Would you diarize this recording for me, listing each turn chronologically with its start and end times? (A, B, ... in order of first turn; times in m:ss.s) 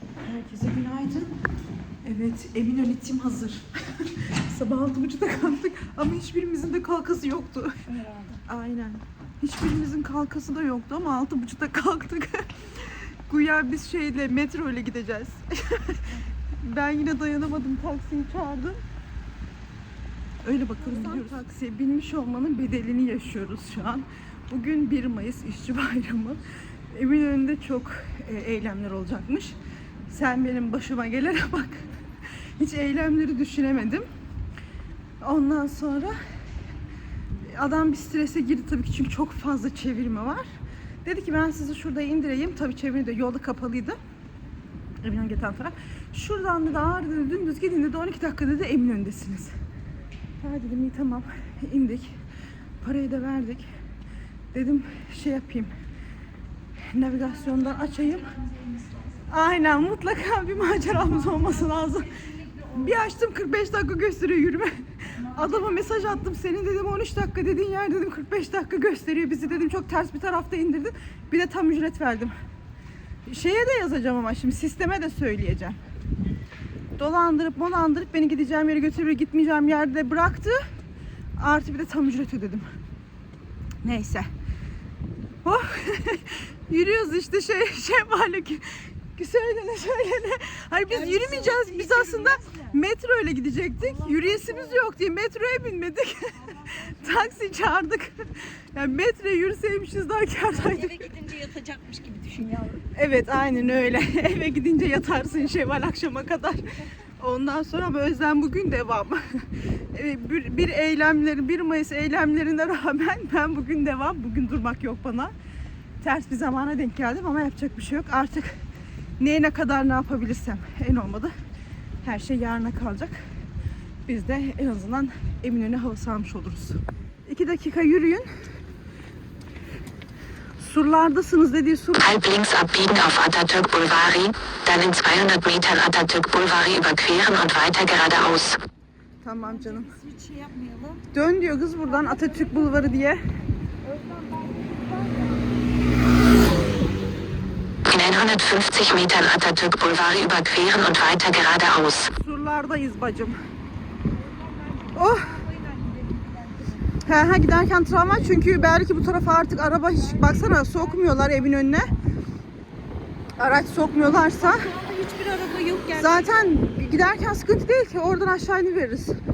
0:00.2-0:01.3 A
0:02.0-0:07.7 A
0:07.9-0:08.4 B
0:08.5-0:16.0 A
0:16.6-0:18.8 A
0:20.4-0:29.5 A
0:20.8-0:21.2 B
0:30.1-0:31.9 A
0:32.6-0:34.0 A
0:35.2-0:36.1 A
0:37.5-0:40.5 A
0:41.0-0:44.0 A
0:45.0-0:49.5 A
0:50.4-0:52.1 A
0:52.8-0:53.6 A
0:54.5-0:55.7 A
0:56.9-0:58.3 A
0:58.5-0:59.0 B
0:59.3-1:02.1 A
1:00.8-1:03.1 B
1:02.7-1:12.3 A
1:05.2-1:06.2 B
1:13.2-1:15.8 A
1:17.0-1:20.6 A
1:21.4-1:22.7 A
1:23.8-1:24.3 A
1:25.4-1:28.6 A
1:29.1-1:36.3 A
1:30.9-1:32.7 B
1:33.8-1:34.9 B
1:36.5-1:36.9 B
1:36.9-1:38.2 A
1:38.7-1:41.0 A
1:40.5-1:42.8 B
1:42.9-1:46.6 A
1:47.2-1:49.2 A
1:49.9-1:55.3 A
1:56.0-1:58.6 A
1:59.2-2:01.3 A
2:02.0-2:03.2 A
2:04.1-2:08.3 A
2:10.6-2:12.1 A
2:12.0-2:18.6 C
2:19.2-2:19.9 A
2:19.3-2:21.0 B
2:21.1-2:23.2 A
2:21.8-2:23.1 B
2:23.8-2:25.5 B
2:27.9-2:32.1 C
2:32.2-2:33.4 A
2:34.2-2:37.1 B
2:34.9-2:35.3 A
2:37.0-2:41.9 A
2:37.9-2:38.8 B
2:39.7-2:41.4 B
2:43.4-2:44.6 A
2:43.9-2:46.6 B
2:45.9-2:49.2 A